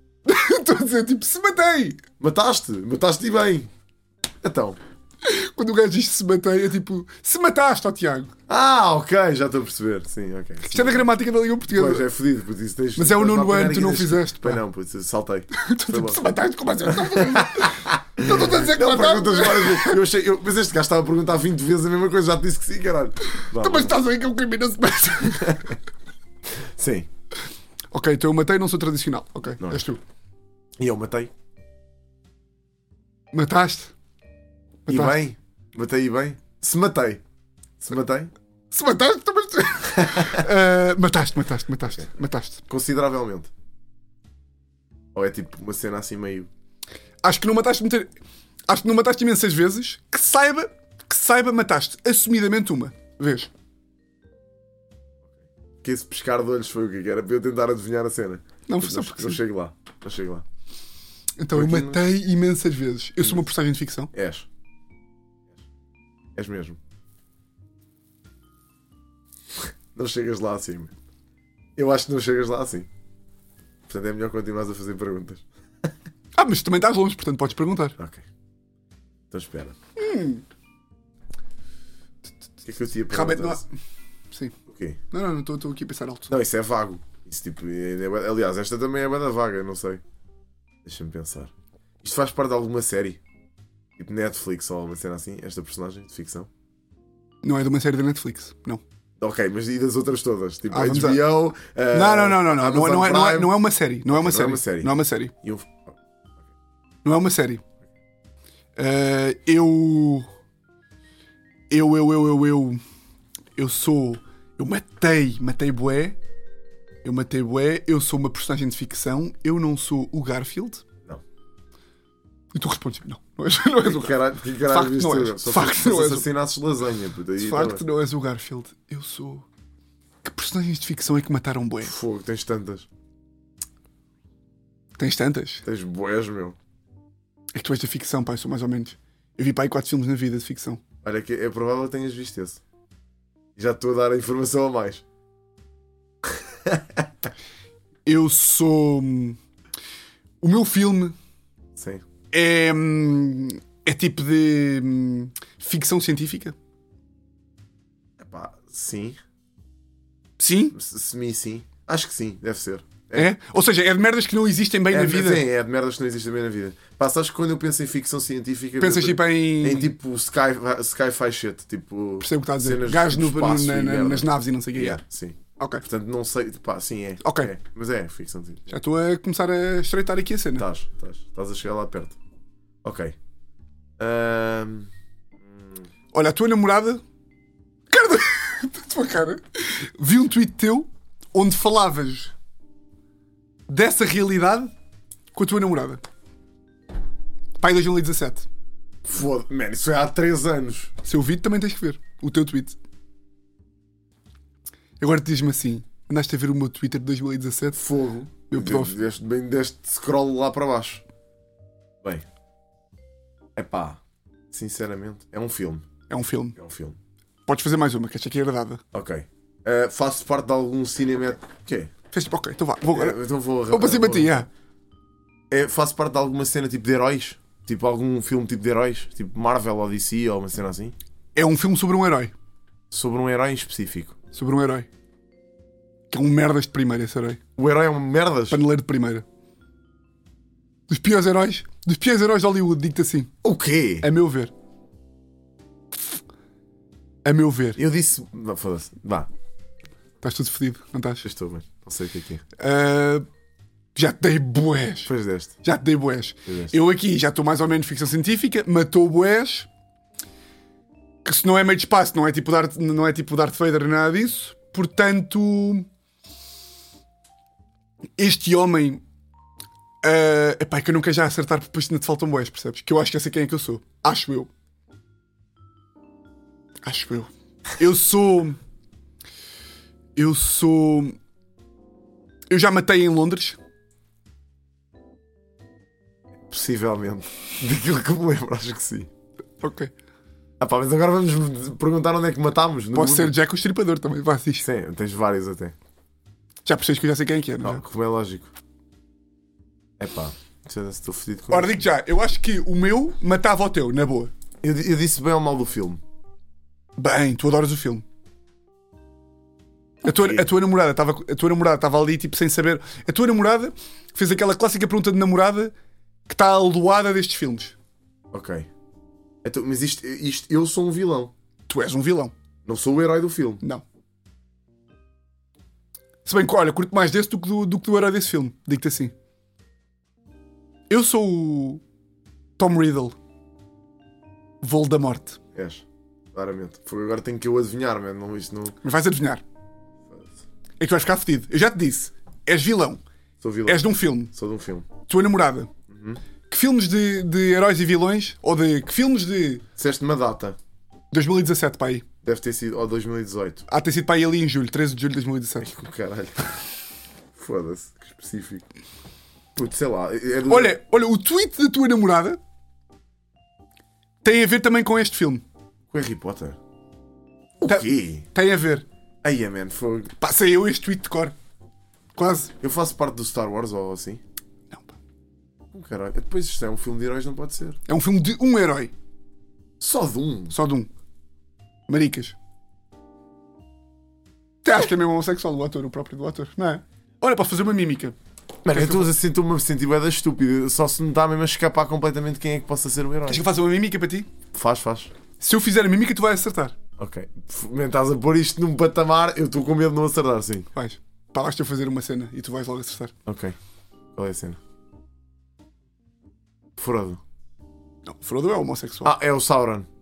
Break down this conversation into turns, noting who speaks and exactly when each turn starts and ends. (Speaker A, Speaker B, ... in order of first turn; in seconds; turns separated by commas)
Speaker A: 0.3-2.0, Speaker B: 2.2-3.7, Speaker B: 4.4-4.8, Speaker A: 5.2-8.3, Speaker B: 8.5-11.1, Speaker A: 10.6-12.1, Speaker B: 11.7-16.3, Speaker A: 13.0-14.6, Speaker A: 15.5-20.0, Speaker B: 16.8-24.0, Speaker A: 23.4-25.7, Speaker B: 25.4-25.8, Speaker B: 26.6-27.1, Speaker A: 27.9-30.0, Speaker B: 30.8-31.3, Speaker A: 33.3-33.9, Speaker A: 34.9-35.2, Speaker B: 34.9-37.2, Speaker B: 37.8-38.3, Speaker A: 38.7-42.6, Speaker B: 40.1-40.4, Speaker B: 42.7-43.5, Speaker B: 45.1-46.5, Speaker A: 47.2-48.1, Speaker A: 48.7-53.5, Speaker B: 55.8-60.5, Speaker A: 58.7-59.4, Speaker A: 61.4-64.1, Speaker B: 61.5-62.0, Speaker B: 64.1-64.5, Speaker B: 66.3-66.8, Speaker B: 69.9-70.9, Speaker B: 71.8-72.9, Speaker B: 73.9-75.9, Speaker A: 76.3-78.0, Speaker B: 78.0-78.2, Speaker B: 79.3-79.8, Speaker A: 80.0-80.4, Speaker B: 82.6-83.6, Speaker A: 83.1-83.7, Speaker B: 84.7-85.0, Speaker A: 85.1-86.3, Speaker B: 86.3-90.0, Speaker B: 90.8-91.5, Speaker B: 92.0-93.2, Speaker B: 94.0-96.5, Speaker A: 97.4-98.8, Speaker B: 99.2-103.5, Speaker A: 100.7-101.2, Speaker A: 101.9-105.3, Speaker B: 104.1-104.9, Speaker B: 105.4-106.0, Speaker A: 107.0-107.6, Speaker A: 108.8-110.3, Speaker A: 111.7-112.8, Speaker A: 113.6-116.2, Speaker A: 117.0-120.8, Speaker A: 122.5-126.2, Speaker B: 123.8-127.8, Speaker A: 127.4-129.4, Speaker A: 130.2-131.9, Speaker B: 131.8-132.9, Speaker A: 135.0-135.6, Speaker B: 135.7-136.6, Speaker A: 137.6-140.8, Speaker B: 141.0-142.6, Speaker B: 143.6-145.0, Speaker B: 146.2-147.1, Speaker A: 148.1-149.4, Speaker A: 150.4-151.2, Speaker B: 151.8-152.1, Speaker A: 152.3-156.6, Speaker B: 158.2-159.2, Speaker A: 160.4-160.8, Speaker B: 160.7-163.3, Speaker A: 163.1-165.4, Speaker B: 164.9-178.7, Speaker A: 168.8-169.9, Speaker A: 172.2-175.0, Speaker A: 175.6-175.8, Speaker A: 177.2-177.5, Speaker A: 178.7-180.7, Speaker B: 180.6-182.2, Speaker B: 182.8-183.2, Speaker B: 184.0-184.9, Speaker B: 185.4-185.9, Speaker A: 186.1-187.0, Speaker A: 187.9-192.3, Speaker A: 193.7-194.7, Speaker A: 195.3-196.0, Speaker A: 197.6-198.5, Speaker B: 199.1-200.9, Speaker A: 201.0-202.8, Speaker A: 205.0-207.8, Speaker B: 207.8-211.0, Speaker A: 208.5-209.0, Speaker B: 213.6-214.0, Speaker B: 214.5-215.8, Speaker A: 216.1-216.6, Speaker B: 216.6-217.0, Speaker A: 217.5-218.8, Speaker B: 218.9-221.9, Speaker A: 222.1-223.2, Speaker B: 222.9-224.4, Speaker A: 223.7-224.5, Speaker B: 225.5-230.9, Speaker A: 231.3-232.3, Speaker B: 232.9-234.2, Speaker A: 234.3-234.9, Speaker A: 236.1-237.4, Speaker B: 237.6-238.6, Speaker A: 238.5-239.2, Speaker A: 240.9-243.3, Speaker B: 243.4-244.1, Speaker A: 244.0-244.5, Speaker A: 247.2-247.8, Speaker B: 247.8-249.3, Speaker A: 250.2-251.2, Speaker B: 251.2-252.4, Speaker A: 252.6-253.3, Speaker A: 253.9-255.1, Speaker B: 255.1-255.5, Speaker A: 255.6-259.7, Speaker B: 256.5-256.7, Speaker A: 261.2-265.9, Speaker A: 268.2-269.0, Speaker A: 270.0-274.5, Speaker A: 276.8-278.6, Speaker A: 280.2-281.2, Speaker A: 282.5-283.6, Speaker B: 286.5-289.1, Speaker A: 289.6-289.9, Speaker B: 290.6-293.4, Speaker A: 292.9-294.7, Speaker B: 294.6-295.8, Speaker A: 296.7-297.8, Speaker B: 297.6-298.5, Speaker B: 300.0-301.8, Speaker A: 301.5-304.3, Speaker B: 304.6-306.0, Speaker A: 307.0-308.0, Speaker A: 310.0-315.7, Speaker B: 310.1-310.5, Speaker A: 316.3-317.8, Speaker B: 318.3-318.7, Speaker B: 319.4-321.3, Speaker A: 321.7-322.3, Speaker B: 322.7-323.6, Speaker A: 326.3-329.1, Speaker A: 330.9-331.8, Speaker A: 332.6-333.1, Speaker A: 334.6-335.4, Speaker B: 335.6-338.8, Speaker A: 338.8-339.4, Speaker A: 340.8-343.0, Speaker B: 343.4-344.9, Speaker A: 343.7-344.3, Speaker A: 345.1-345.7, Speaker B: 345.9-346.2, Speaker A: 346.5-349.6, Speaker B: 349.8-350.6, Speaker A: 351.1-352.1, Speaker B: 352.2-353.7, Speaker A: 353.7-355.7, Speaker B: 355.6-356.6, Speaker B: 357.4-358.7, Speaker B: 359.6-360.8, Speaker A: 360.5-362.4, Speaker A: 364.2-365.4, Speaker B: 365.9-366.6, Speaker B: 367.6-368.3, Speaker A: 367.7-368.9, Speaker B: 369.2-370.1, Speaker A: 370.2-371.4, Speaker A: 372.2-372.5, Speaker B: 372.6-374.2, Speaker B: 375.7-377.8, Speaker A: 377.9-378.9, Speaker B: 379.8-380.6, Speaker A: 380.5-380.9, Speaker A: 381.9-382.4, Speaker A: 384.6-388.2, Speaker B: 388.6-393.4, Speaker A: 388.7-389.1, Speaker A: 393.3-394.3, Speaker B: 394.5-395.1, Speaker A: 395.4-396.7, Speaker B: 397.0-400.7, Speaker A: 400.8-403.1, Speaker B: 403.3-403.6, Speaker B: 404.1-404.6, Speaker B: 406.8-407.2, Speaker A: 408.1-409.1, Speaker B: 409.0-409.9